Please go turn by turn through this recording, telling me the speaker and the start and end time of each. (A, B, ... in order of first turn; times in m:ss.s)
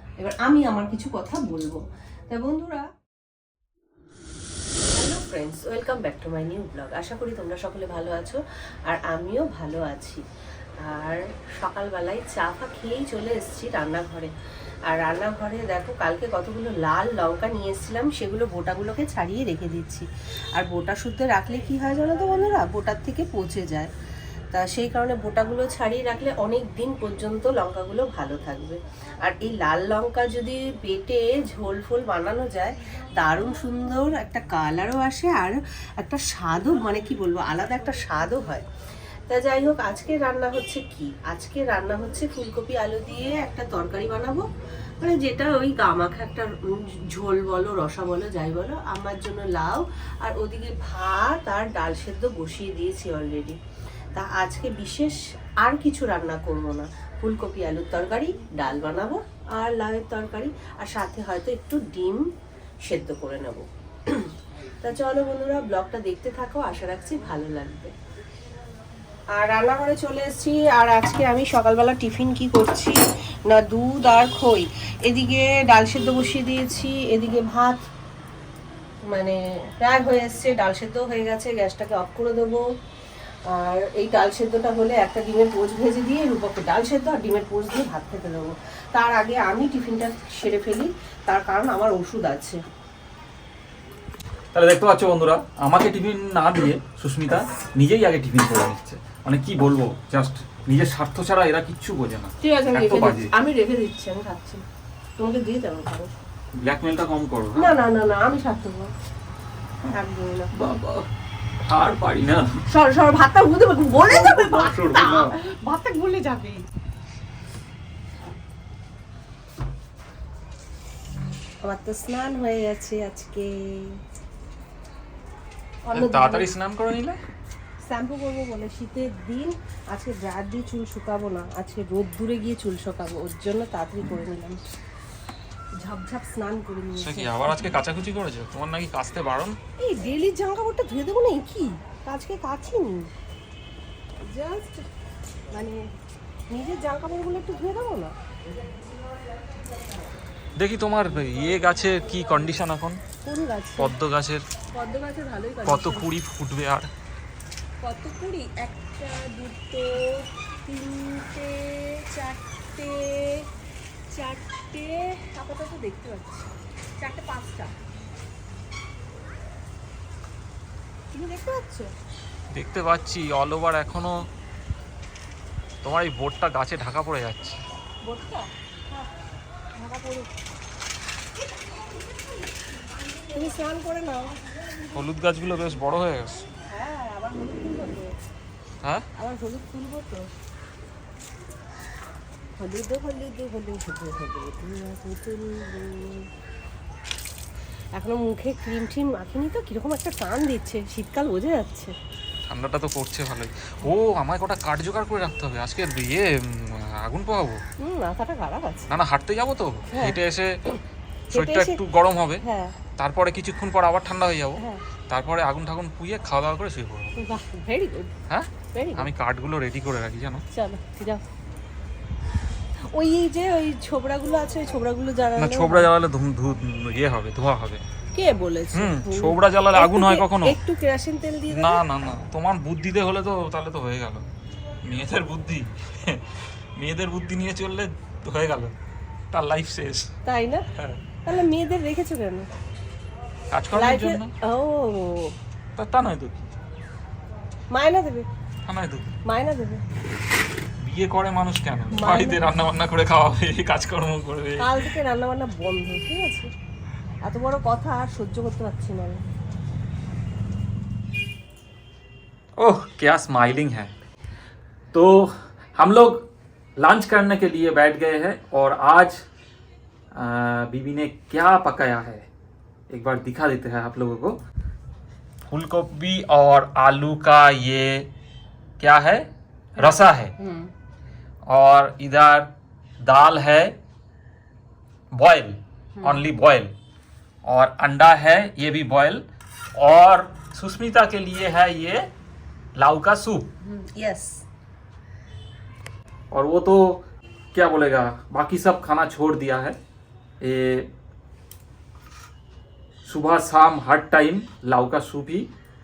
0:00.2-0:02.9 A
0:05.0-0:10.2 A
0:10.8-0:14.3 A
0:14.9-0:23.9 A
0:24.5-0:38.7 A
0:39.3-0:44.5 A
0:45.0-0:53.6 A
0:54.2-1:02.2 A
1:02.9-1:07.9 A
1:09.3-1:13.0 A
1:13.5-1:17.8 A
1:19.1-1:22.6 A
1:23.5-1:32.6 A
1:34.5-1:43.3 B
1:42.4-1:44.6 A
1:45.2-1:46.1 A
1:46.6-1:47.7 B
1:47.6-1:48.9 A
1:49.8-1:50.5 A
1:50.5-1:51.1 B
1:51.7-1:52.6 B
1:52.7-1:56.7 A
1:54.2-1:55.4 B
2:01.6-2:04.0 A
2:05.9-2:06.5 A
2:05.9-2:07.2 B
2:07.9-2:14.6 A
2:15.8-2:17.7 A
2:17.0-2:19.6 B
2:19.8-2:23.1 A
2:24.3-2:24.9 A
2:25.5-2:25.8 A
2:26.5-2:28.1 A
2:30.6-2:33.0 B
2:33.2-2:33.9 A
2:33.8-2:34.4 B
2:34.8-2:36.1 A
2:35.7-2:36.9 B
2:37.8-2:43.5 A
2:44.1-2:47.7 A
2:51.1-2:51.9 A
2:52.5-2:54.2 B
2:55.8-2:57.6 B
2:58.0-2:59.1 A
2:59.8-3:00.3 A
3:03.3-3:04.3 A
3:04.9-3:06.5 B
3:06.7-3:08.1 A
3:09.2-3:10.3 A
3:12.6-3:16.3 A
3:18.0-3:21.9 A
3:22.5-3:27.6 B
3:27.8-3:28.9 A
3:28.9-3:30.6 B
3:29.9-3:30.8 A
3:31.3-3:31.8 A
3:31.3-3:32.4 B
3:32.4-3:32.8 A
3:33.0-3:37.2 B
3:34.6-3:34.8 A
3:37.2-3:38.1 A
3:38.3-3:40.4 B
3:38.7-3:39.1 A
3:40.5-3:41.2 A
3:42.9-3:45.9 A
3:45.4-3:47.8 B
3:48.1-3:51.8 A
3:48.7-3:50.6 B
3:51.5-3:54.3 B
3:54.8-3:58.7 B
3:59.3-4:00.1 B
4:00.2-4:00.7 A
4:00.8-4:01.0 B
4:01.2-4:02.5 A
4:03.5-4:04.3 B
4:03.7-4:05.4 A
4:05.8-4:06.4 B
4:07.7-4:08.3 A
4:08.7-4:09.1 B
4:09.2-4:09.8 A
4:10.8-4:14.9 B
4:11.9-4:12.4 A
4:14.6-4:16.5 A
4:17.2-4:19.2 A
4:22.6-4:23.9 B
4:24.9-4:26.3 B
4:26.8-4:29.2 B
4:30.1-4:32.3 B
4:32.9-4:34.4 B
4:35.5-4:38.1 B
4:38.8-4:40.4 B
4:39.8-4:40.7 A
4:41.5-4:43.8 B
4:45.1-4:46.7 B
4:47.5-4:49.2 B
4:49.8-4:52.1 B
4:52.8-4:53.5 B
4:53.6-4:54.4 A
4:56.3-4:57.0 B
4:57.5-4:59.8 B
5:00.4-5:00.9 B
5:03.1-5:05.5 B